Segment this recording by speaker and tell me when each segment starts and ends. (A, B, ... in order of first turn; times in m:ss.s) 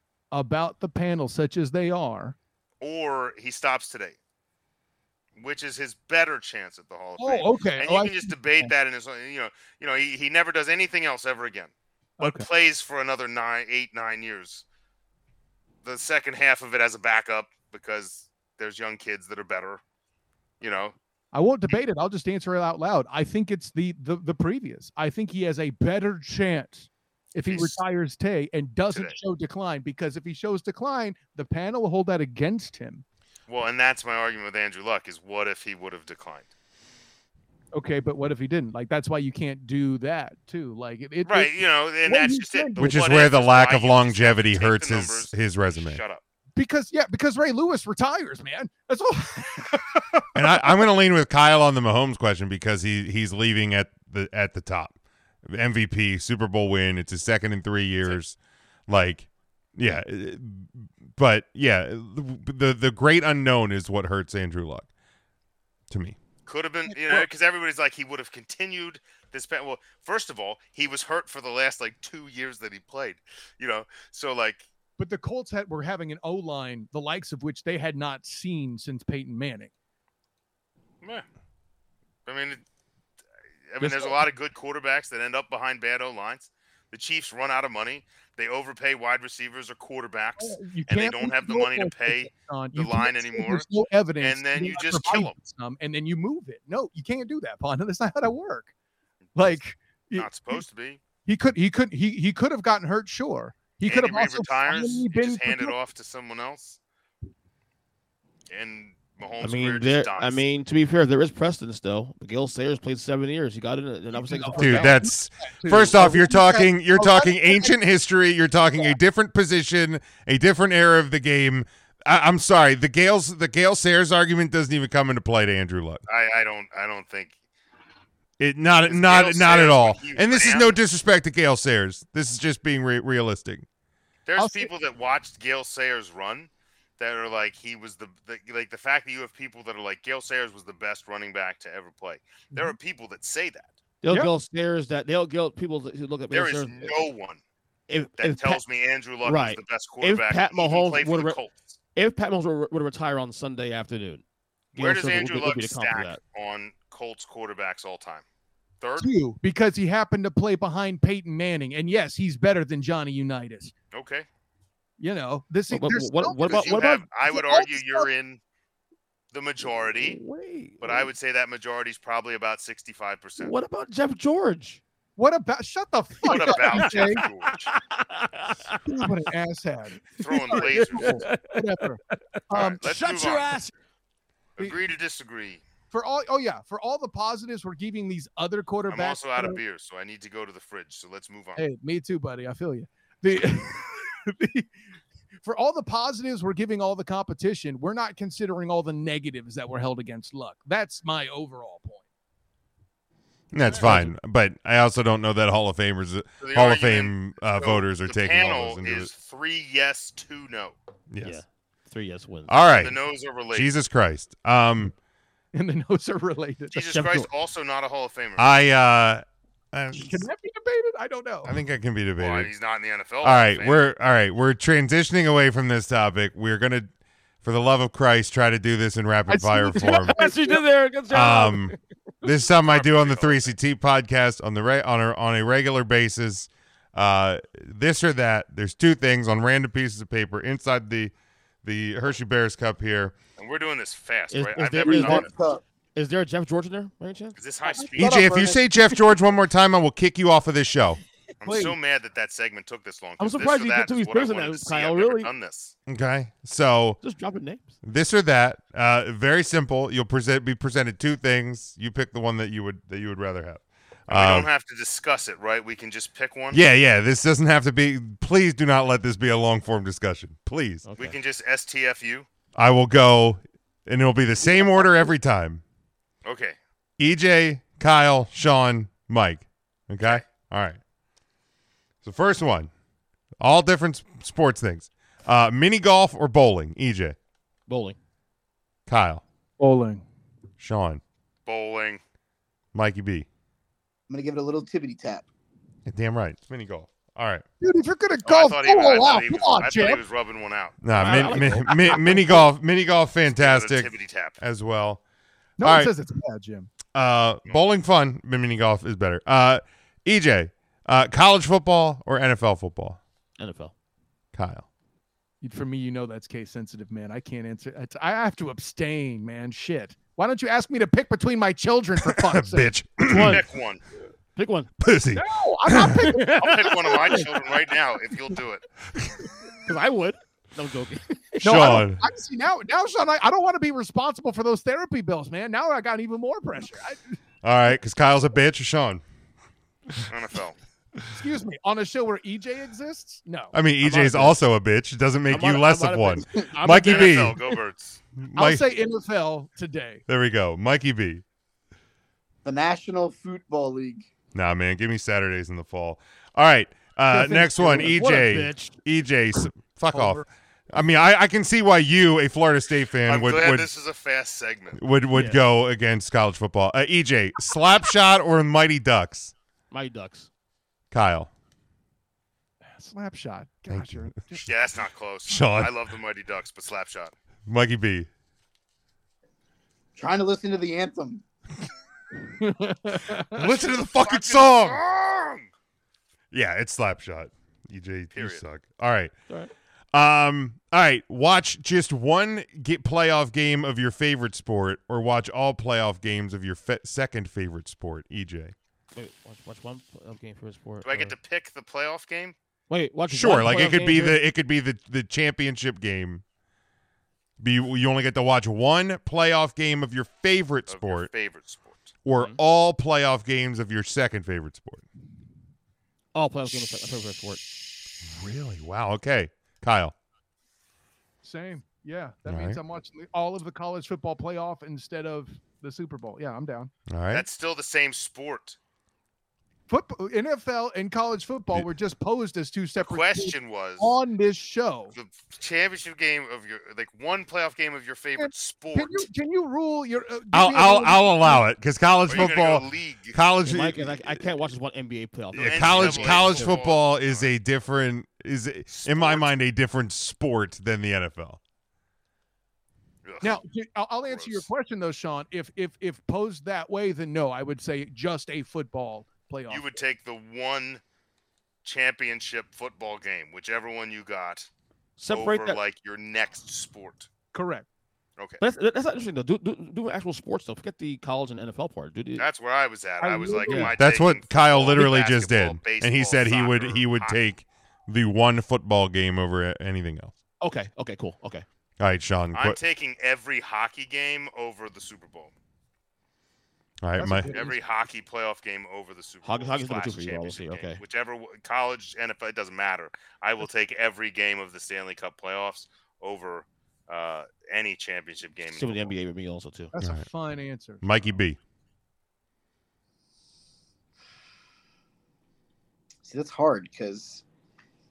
0:00.3-0:02.4 A
0:02.8-0:04.2 B
0:05.4-0:14.6 B
0:07.2-0:08.7 A
0:12.2-0:12.5 A
0:15.8-0:19.8 B
0:20.6-0:20.9 B
0:21.3-0:33.0 A
0:27.5-0:27.8 B
0:28.9-0:29.2 B
0:33.5-0:36.5 B
0:37.7-0:43.1 A
0:41.2-0:46.2 B
0:42.8-0:46.0 C
0:46.5-0:50.0 A
0:50.3-0:58.4 C
0:58.9-1:04.9 C
1:05.9-1:06.2 C
1:06.4-1:14.7 B
1:06.9-1:07.3 A
1:15.0-1:19.7 A
1:22.2-1:22.6 B
1:23.7-1:33.7 B
1:23.8-1:24.2 A
1:30.4-1:38.7 A
1:34.2-1:35.3 B
1:39.3-1:39.6 B
1:39.3-1:40.6 A
1:40.1-1:41.0 B
1:41.2-1:45.7 A
1:43.8-1:46.8 B
1:48.5-1:50.4 B
1:49.4-1:55.0 D
1:54.1-1:57.7 A
1:54.6-2:06.0 C
2:06.1-2:07.3 B
2:08.4-2:13.6 C
2:08.8-2:10.8 B
2:14.2-2:23.8 B
2:14.4-2:14.7 A
2:24.0-2:27.0 D
2:26.3-2:27.4 B
2:27.9-2:28.6 D
2:28.2-2:31.7 B
2:29.2-2:31.4 D
2:32.0-2:34.2 D
2:34.7-2:36.2 D
2:34.7-2:38.2 B
2:38.8-2:39.1 B
2:39.0-2:43.7 A
2:43.9-2:44.3 B
2:45.0-2:48.1 A
2:45.7-2:46.9 D
2:46.4-2:48.4 B
2:49.3-2:50.2 B
2:50.0-2:51.1 D
2:50.8-2:53.5 B
2:53.4-2:54.8 D
2:55.2-2:57.2 A
2:56.2-2:57.7 B
2:56.2-2:59.1 D
2:58.8-3:03.7 A
3:00.2-3:01.3 B
3:00.5-3:02.2 D
3:02.5-3:03.6 B
3:04.6-3:05.6 B
3:05.9-3:09.6 A
3:08.9-3:11.6 B
3:11.6-3:14.7 A
3:15.4-3:22.0 A
3:23.5-3:29.1 C
3:23.8-3:24.1 D
3:26.4-3:30.8 B
3:31.1-3:31.4 C
3:31.2-3:32.5 D
3:32.5-3:33.0 C
3:32.7-3:33.7 B
3:33.5-3:34.9 C
3:35.5-3:36.7 A
3:36.7-3:38.6 B
3:36.7-3:37.3 D
3:38.4-3:40.3 C
3:39.9-3:41.6 A
3:41.4-3:42.5 C
3:42.2-3:43.9 B
3:43.2-3:46.9 C
3:47.4-3:50.2 C
3:49.3-3:50.6 A
3:49.8-3:51.8 D
3:51.1-4:01.1 C
3:52.6-3:53.6 B
4:01.6-4:03.2 C
4:03.4-4:05.3 B
4:04.3-4:05.3 D
4:04.8-4:05.6 E
4:05.9-4:07.4 D
4:07.4-4:08.3 B
4:07.8-4:08.6 E
4:08.0-4:11.0 C
4:11.4-4:15.7 B
4:11.4-4:11.8 A
4:13.2-4:15.3 D
4:15.9-4:17.0 C
4:17.0-4:17.7 D
4:17.8-4:24.5 C
4:24.1-4:26.6 B
4:26.5-4:30.8 C
4:30.8-4:31.1 D
4:31.0-4:32.3 B
4:32.5-4:35.6 C
4:36.2-4:36.6 B
4:37.0-4:40.8 C
4:42.0-4:42.7 C
4:43.4-4:47.2 C
4:47.7-4:48.0 D
4:48.9-4:49.2 C
4:49.6-4:50.0 A
4:50.6-4:51.0 C
4:51.4-4:52.0 B
4:52.7-4:53.3 C
4:54.1-4:55.3 E
4:55.8-4:57.4 C
4:57.6-5:00.0 A
4:58.2-5:01.3 B
5:00.8-5:05.0 C
5:00.9-5:02.4 D
5:01.5-5:02.4 A
5:03.3-5:04.4 B
5:05.6-5:06.7 A
5:05.6-5:05.9 C
5:06.9-5:13.0 C
5:13.4-5:13.7 D
5:14.3-5:14.6 C
5:15.4-5:22.7 A
5:22.0-5:23.4 C
5:23.0-5:23.4 D
5:23.1-5:23.8 B
5:24.3-5:24.7 D
5:24.8-5:26.1 C
5:25.1-5:27.4 A
5:26.1-5:27.2 D
5:26.4-5:28.6 B
5:29.6-5:31.8 D
5:31.4-5:32.0 C
5:31.4-5:37.2 A
5:37.4-5:39.0 C
5:40.1-5:40.6 B
5:41.1-5:44.3 A
5:43.5-5:47.4 C
5:45.3-5:47.6 D
5:46.6-5:48.0 B
5:48.2-5:48.6 C
5:48.4-5:50.0 A
5:50.1-5:51.2 C
5:52.4-5:54.1 E
5:54.3-6:03.7 C
5:57.1-5:57.9 A
5:57.6-5:58.8 D
5:59.9-6:00.2 D
6:03.1-6:04.8 B
6:04.7-6:09.3 C
6:05.1-6:05.4 D
6:09.7-6:10.3 D
6:10.9-6:11.3 C
6:12.7-6:14.5 A
6:13.7-6:14.1 C
6:14.4-6:17.1 B
6:15.3-6:15.7 C
6:17.5-6:18.1 C
6:20.0-6:21.2 E
6:22.4-6:23.4 A
6:23.2-6:24.8 C
6:23.6-6:25.5 B
6:26.3-6:29.1 C
6:28.1-6:28.4 B
6:29.9-6:38.5 C
6:38.9-6:41.1 D
6:40.8-6:42.3 B
6:42.7-6:44.2 D
6:43.1-6:46.2 C
6:47.4-6:51.1 C
6:50.7-6:51.9 B
6:52.0-6:54.8 C
6:52.1-6:52.4 D
6:56.1-6:57.4 D
6:58.0-6:59.9 C
7:01.2-7:06.7 A
7:02.2-7:02.6 C
7:06.9-7:07.3 C
7:07.1-7:08.6 B
7:09.7-7:14.9 A
7:12.8-7:14.0 B
7:14.9-7:19.1 B
7:18.2-7:21.5 A
7:20.3-7:24.2 C
7:22.0-7:23.2 B
7:23.4-7:26.6 D
7:25.3-7:31.4 C
7:25.3-7:27.3 B
7:28.7-7:29.3 B
7:33.0-7:33.4 B
7:33.2-7:39.8 A
7:34.1-7:34.5 B
7:39.5-7:40.8 B
7:41.6-7:44.5 B
7:45.0-7:45.6 D
7:45.1-7:47.1 B
7:47.3-7:47.7 A
7:48.4-7:52.3 D
7:52.2-7:57.2 B
7:53.0-7:53.8 A
7:53.5-7:53.7 D
7:53.8-8:00.1 C
8:00.4-8:01.4 D
8:01.8-8:02.6 C
8:02.3-8:05.3 B
8:06.8-8:07.3 C
8:07.0-8:07.6 A
8:07.3-8:19.0 B
8:09.2-8:10.8 D
8:18.5-8:19.7 D
8:19.7-8:20.8 A
8:19.8-8:20.0 C
8:20.8-8:21.4 C
8:26.0-8:27.2 E